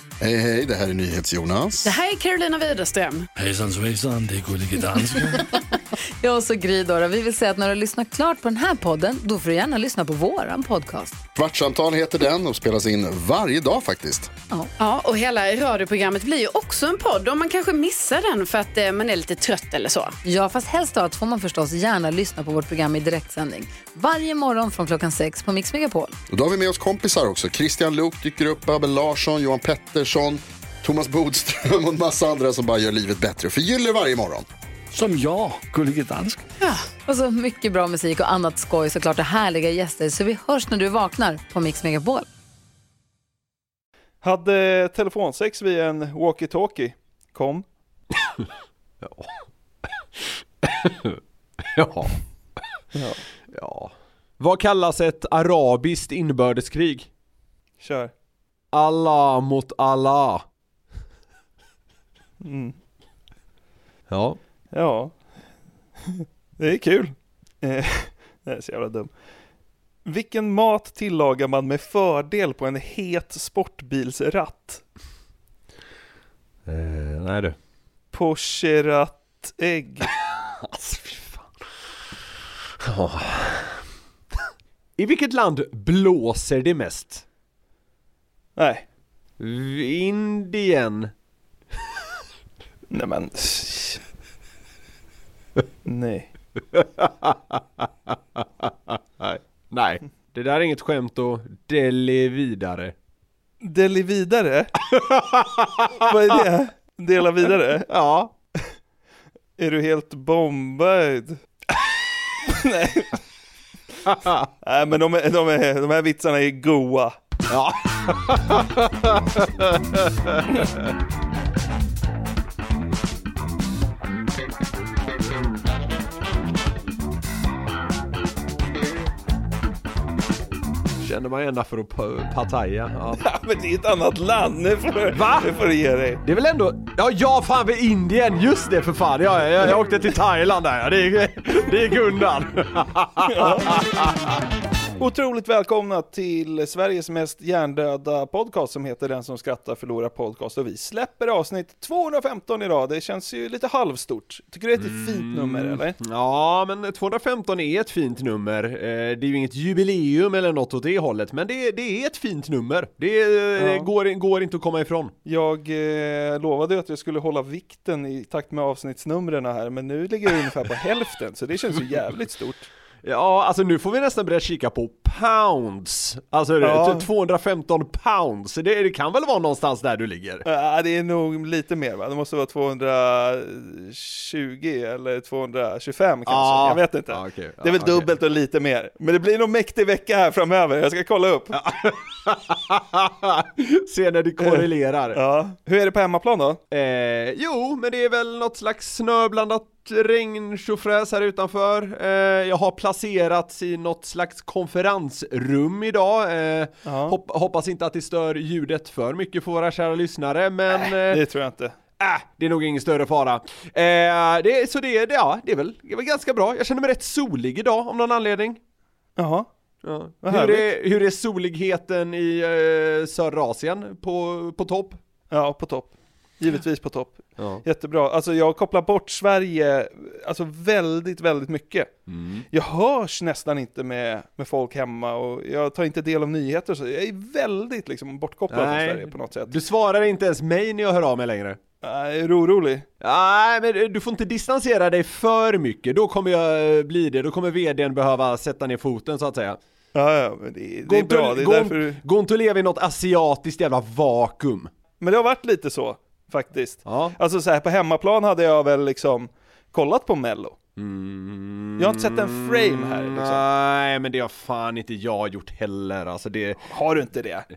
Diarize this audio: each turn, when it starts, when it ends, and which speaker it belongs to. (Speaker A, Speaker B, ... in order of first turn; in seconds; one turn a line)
Speaker A: 0.2-1.9
Speaker B: 1.8-3.3
Speaker C: 3.4-5.4
Speaker D: 6.2-11.2
Speaker A: 11.3-14.3
Speaker B: 14.8-20.2
Speaker D: 20.2-26.2
Speaker A: 26.3-34.5
Speaker C: 34.9-36.4
Speaker D: 36.6-42.3
Speaker E: 44.2-47.6
Speaker F: 49.0-49.3
Speaker F: 50.6-51.2
Speaker F: 51.7-52.1
Speaker E: 52.9-53.2
Speaker F: 53.5-57.1
Speaker E: 57.8-58.1
Speaker F: 58.7-60.4
Speaker E: 62.4-62.8
Speaker F: 64.1-64.4
Speaker E: 64.7-65.2
Speaker E: 66.0-69.1
Speaker E: 70.0-74.8
Speaker F: 76.7-77.5
Speaker E: 78.1-80.1
Speaker F: 80.6-81.6
Speaker F: 82.8-83.8
Speaker F: 85.0-87.2
Speaker E: 88.5-88.8
Speaker F: 89.4-91.1
Speaker E: 92.9-94.0
Speaker E: 95.8-96.3
Speaker F: 96.7-102.9
Speaker E: 103.6-104.7
Speaker F: 104.9-106.1
Speaker E: 106.0-107.9
Speaker F: 107.9-108.3
Speaker E: 109.6-111.4
Speaker E: 112.4-113.2
Speaker F: 114.0-114.4
Speaker E: 114.6-117.2
Speaker F: 117.5-120.9
Speaker F: 131.0-133.2
Speaker E: 133.2-136.2
Speaker F: 135.1-135.5
Speaker F: 136.2-144.3
Speaker E: 143.3-143.8
Speaker E: 145.0-156.0
Speaker F: 154.8-165.1
Speaker E: 163.6-163.9
Speaker E: 165.2-172.7
Speaker F: 173.0-180.4
Speaker E: 176.6-177.1
Speaker E: 180.4-191.6
Speaker F: 186.3-188.1
Speaker F: 191.5-195.2
Speaker E: 194.4-196.6
Speaker F: 196.7-211.2
Speaker E: 206.8-207.2
Speaker E: 210.7-211.8
Speaker F: 212.0-218.6
Speaker E: 219.2-219.5
Speaker F: 219.8-225.0
Speaker E: 220.2-220.7
Speaker E: 225.3-231.9
Speaker F: 227.4-227.6
Speaker F: 232.1-232.4
Speaker E: 232.5-239.6
Speaker F: 238.5-241.6
Speaker E: 241.8-242.8
Speaker F: 243.0-249.6
Speaker E: 249.9-252.0
Speaker F: 250.8-254.7
Speaker E: 255.0-260.6
Speaker F: 256.9-257.1
Speaker F: 260.8-266.6
Speaker E: 261.8-263.4
Speaker E: 266.6-267.5